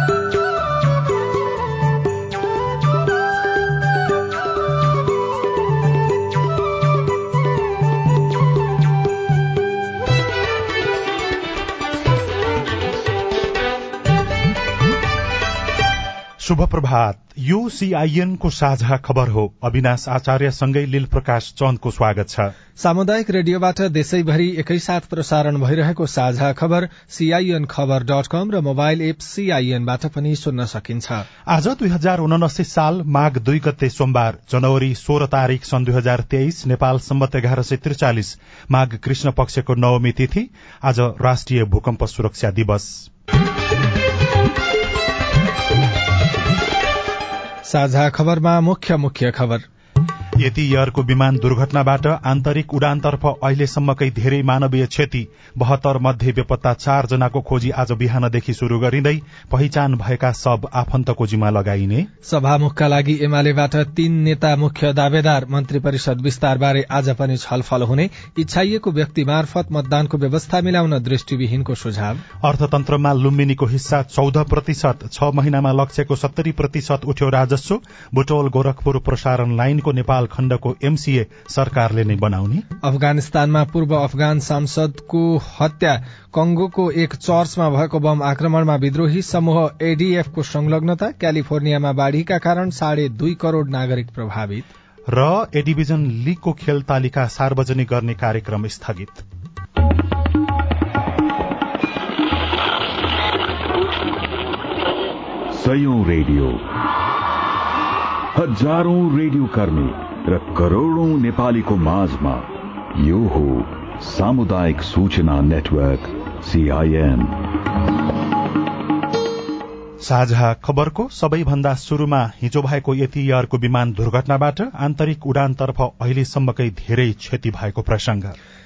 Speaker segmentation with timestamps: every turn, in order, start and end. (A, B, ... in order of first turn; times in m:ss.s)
0:16.4-0:22.5 A
0:22.8-0:31.3 B
0:31.5-0:43.1 A
0:47.7-0:49.6 B
0:50.4-1:02.1 A
1:02.3-1:12.2 B
1:12.4-1:22.7 A
1:22.8-1:34.7 B
1:35.1-1:39.2 A
1:45.5-1:46.6 C
1:48.4-1:57.4 C
2:00.0-2:08.4 A